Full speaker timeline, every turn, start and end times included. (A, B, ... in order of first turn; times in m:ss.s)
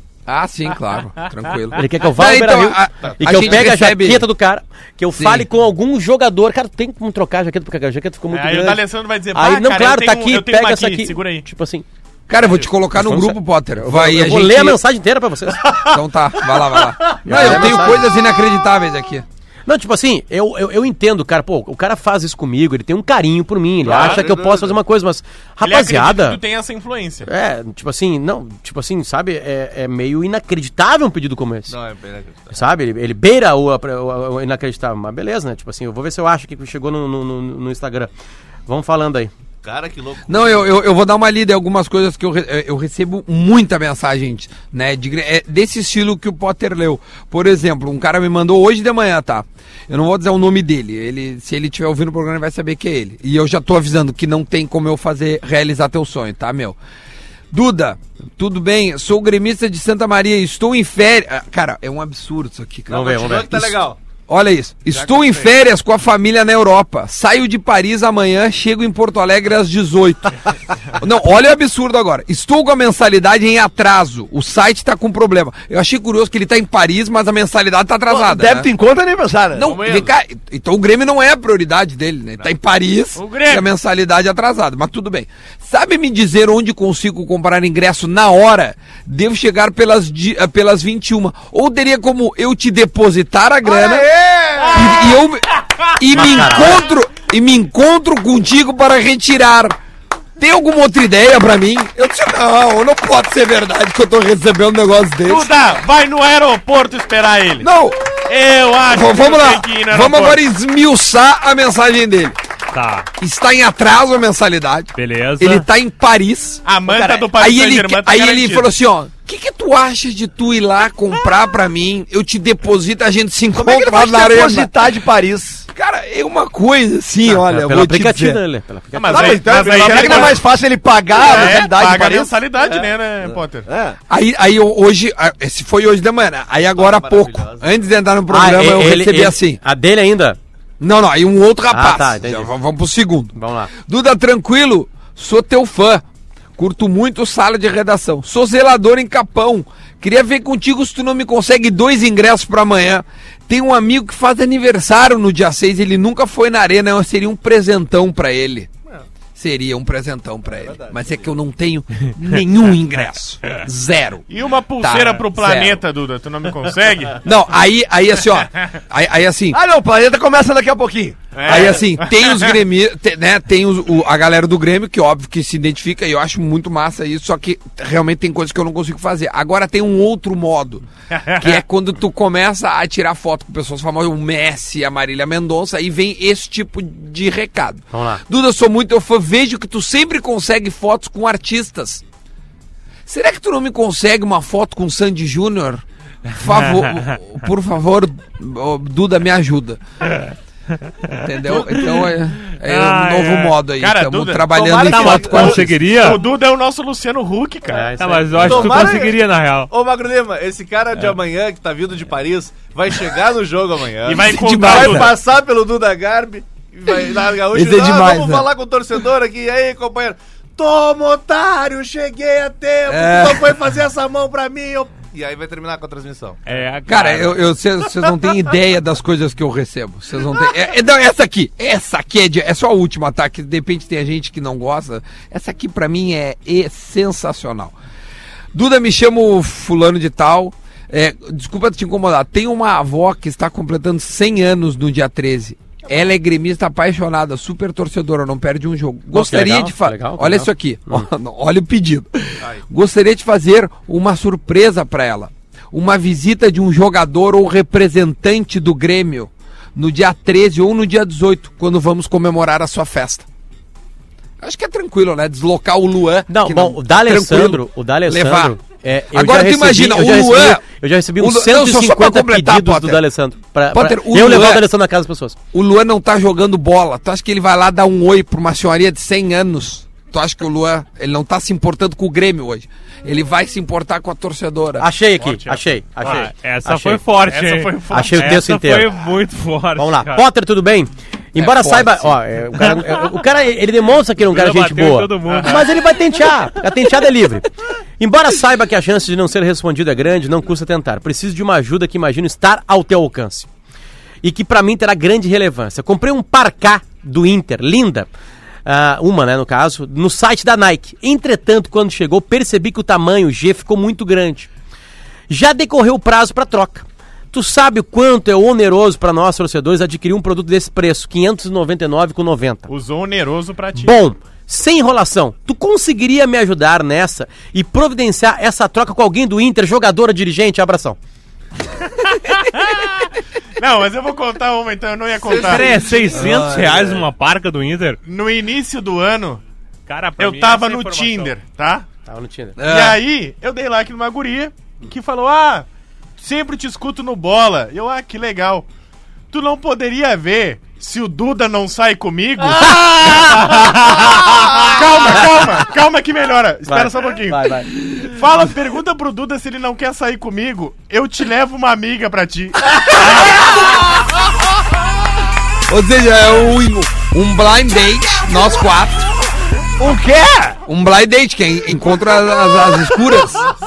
0:00.3-0:04.3 A
0:01.7-0:08.8 B
0:03.0-0:03.6 C
0:05.2-0:05.4 A
0:08.3-0:11.4 D
0:09.3-0:11.8 B
0:12.3-0:14.8 A
0:12.4-0:12.6 C
0:12.9-0:15.7 B
0:15.8-0:19.2 A
0:17.2-0:18.1 B
0:19.7-0:26.4 B
0:23.8-0:24.8 C
0:23.8-0:24.2 D
0:25.6-0:27.3 D
0:27.2-0:31.7 B
0:31.7-0:32.6 C
0:32.5-0:38.1 B
0:38.7-0:39.3 B
0:39.6-0:40.6 C
0:40.3-0:56.8 A
0:57.5-1:03.7 A
1:02.9-1:04.0 C
1:02.9-1:03.6 B
1:04.3-1:10.4 A
1:04.9-1:05.5 C
1:10.9-1:18.7 A
1:18.1-1:19.8 E
1:19.5-1:34.1 A
1:19.6-1:20.1 C
1:23.2-1:23.7 D
1:33.7-1:35.0 C
1:34.7-1:39.8 A
1:36.1-1:36.8 B
1:40.4-1:45.5 A
1:45.2-1:47.7 D
1:47.6-1:48.0 A
1:48.2-1:50.4 D
1:48.8-1:52.4 A
1:52.7-1:53.1 F
1:53.2-1:56.6 A
1:55.0-1:55.6 F
1:56.6-1:58.7 D
1:56.9-1:57.2 E
1:57.2-2:04.7 A
2:03.5-2:05.6 E
2:05.7-2:08.4 A
2:07.3-2:10.2 B
2:08.9-2:10.5 D
2:09.1-2:12.4 E
2:11.1-2:13.7 D
2:12.5-2:12.9 C
2:13.6-2:14.0 E
2:14.1-2:19.6 A
2:16.7-2:17.8 C
2:18.3-2:20.4 B
2:20.8-2:26.0 A
2:21.7-2:22.5 B
2:23.3-2:23.7 B
2:26.6-2:38.7 A
2:39.4-2:44.2 A
2:44.3-2:47.2 D
2:44.8-2:45.8 A
2:47.2-2:49.6 A
2:49.5-2:51.4 E
2:51.3-2:52.6 D
2:51.4-3:12.0 A
3:01.1-3:01.6 D
3:07.9-3:08.2 B
3:13.0-3:19.8 A
3:16.5-3:17.1 F
3:21.1-3:23.6 F
3:21.2-3:25.9 A
3:23.8-3:24.5 D
3:24.4-3:25.7 C
3:24.8-3:26.2 F
3:25.8-3:28.2 D
3:27.7-3:29.0 B
3:27.9-3:29.7 F
3:28.4-3:46.4 C
3:34.0-3:35.1 D
3:34.2-3:35.1 A
3:37.5-3:38.5 A
3:42.9-3:43.6 A
3:46.5-3:47.4 F
3:46.9-3:57.7 A
3:58.5-4:23.2 A
4:09.1-4:11.1 B
4:24.4-4:28.6 A
4:26.3-4:35.4 B
4:29.1-4:30.6 A
4:31.2-4:33.0 A
4:33.7-4:34.7 A
4:35.5-4:44.8 A
4:44.8-4:47.0 B
4:45.2-4:46.3 D
4:46.0-4:50.2 F
4:47.2-4:48.3 D
4:47.9-4:48.9 B
4:49.8-5:03.5 B
4:51.4-4:52.2 A
4:52.8-4:53.1 F
4:54.2-4:55.9 F
4:55.3-4:55.6 D
5:04.2-5:08.1 B
5:08.6-5:14.5 B
5:15.3-5:22.7 B
5:22.7-5:23.9 D
5:23.8-5:31.0 B
5:32.5-5:33.0 D
5:33.6-5:35.9 D
5:35.3-5:38.0 F
5:36.1-5:37.1 A
5:38.0-5:39.4 D
5:39.9-5:41.3 F
5:40.2-5:41.8 D
5:42.1-5:42.6 B
5:42.6-5:43.0 A
5:42.6-5:45.6 D
5:46.2-5:48.6 D
5:49.3-6:03.3 D
5:56.7-5:57.7 B
6:05.7-6:09.1 A
6:09.8-6:10.6 E
6:10.6-6:13.5 A